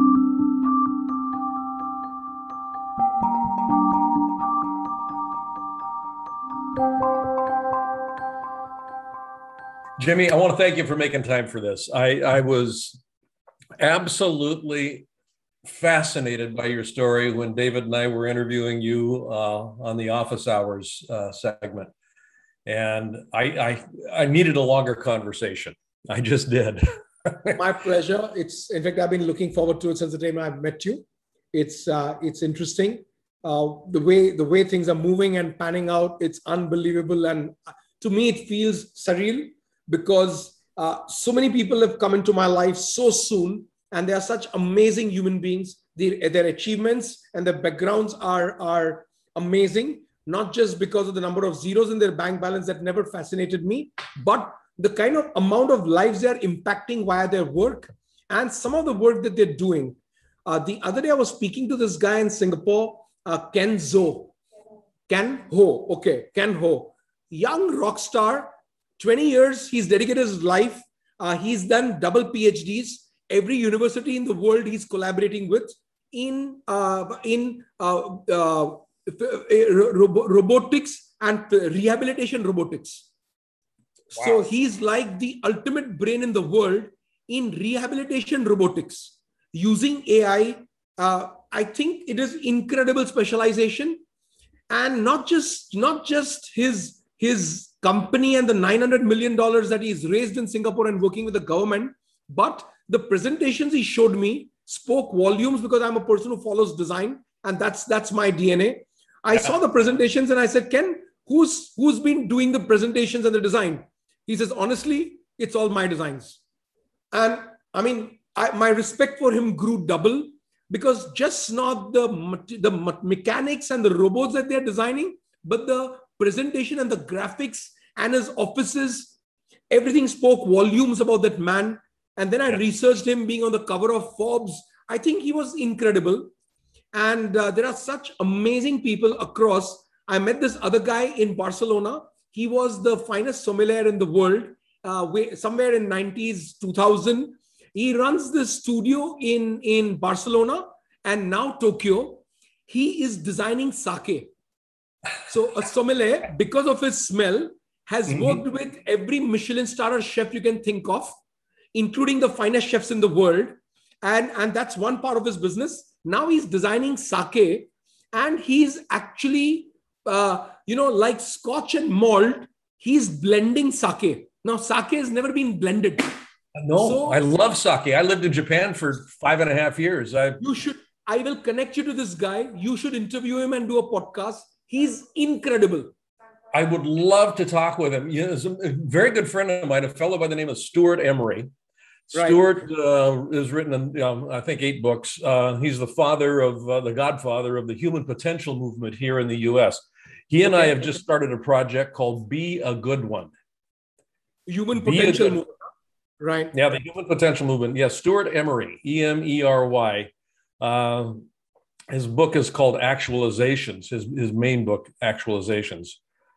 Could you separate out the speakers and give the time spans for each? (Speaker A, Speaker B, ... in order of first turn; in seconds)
Speaker A: 10.0-13.0, 13.8-15.1, 15.7-21.9, 22.6-27.6, 176.6-180.4, 186.5-191.5, 192.1-203.3, 204.8-205.4, 206.5-211.3, 211.9-216.0
Speaker B: 27.6-64.3, 65.1-83.1, 84.1-94.0, 94.7-116.4, 117.1-129.2, 129.7-136.3, 136.9-154.3, 155.3-161.2, 161.7-176.1, 176.8-177.2, 180.4-185.9, 192.1-192.4, 200.5-201.0, 204.5-205.5, 206.2-206.5